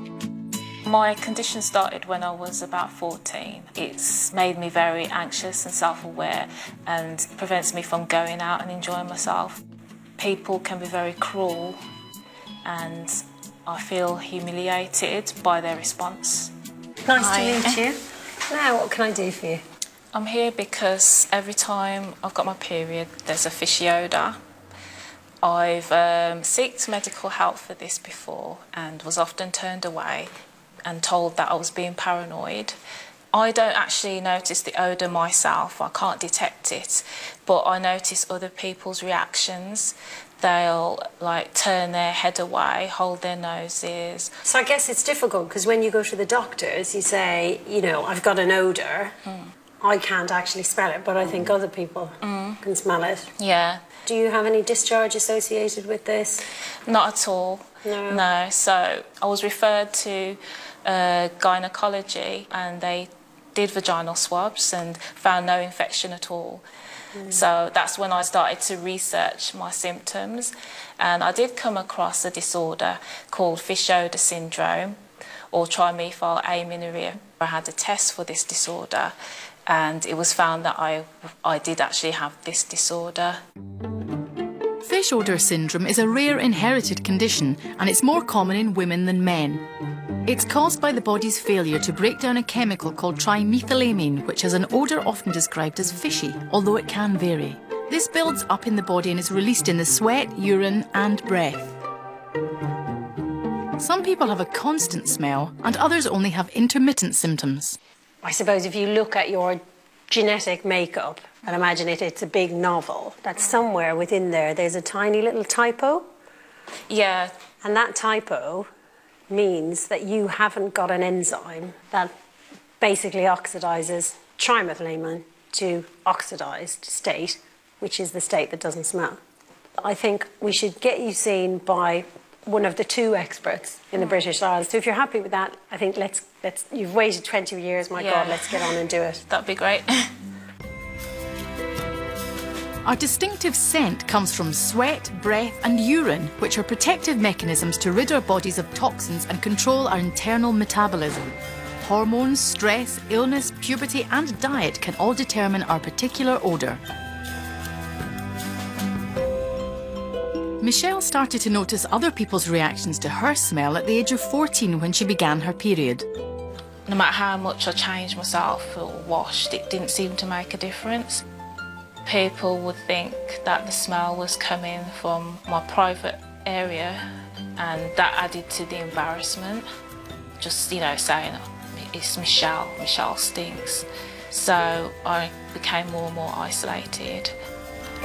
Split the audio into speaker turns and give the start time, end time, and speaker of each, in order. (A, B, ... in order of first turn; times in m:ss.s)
0:00.8-0:09.6 A
0:10.2-0:11.8 A
0:12.6-0:16.5 A
0:17.0-0:19.6 B
0:17.2-0:17.8 A
0:20.1-0:24.4 A
0:25.4-0:30.3 A
0:30.8-0:32.8 A
0:33.3-0:44.3 A
0:44.4-0:49.1 B
0:49.8-0:53.3 B
0:52.2-0:52.6 A
0:53.4-0:53.8 A
0:54.0-0:56.4 B
0:56.8-1:06.6 A
0:57.8-0:58.2 B
1:07.2-1:07.4 B
1:07.3-1:15.0 A
1:15.5-1:19.1 A
1:19.7-1:23.4 A
1:24.8-1:29.6 C
1:30.2-1:41.7 C
1:43.8-1:47.8 C
1:48.2-1:49.6 B
1:50.1-1:56.0 B
1:56.9-1:57.3 A
1:57.6-1:58.6 B
1:59.3-2:02.1 B
2:02.8-2:09.2 B
2:09.8-2:19.2 B
2:17.9-2:18.7 A
2:19.3-2:20.1 A
2:22.8-2:36.8 C
2:40.6-2:46.0 C
2:46.9-2:51.2 A
2:52.0-2:57.0 A
2:57.6-2:59.6 A
3:00.4-3:07.3 A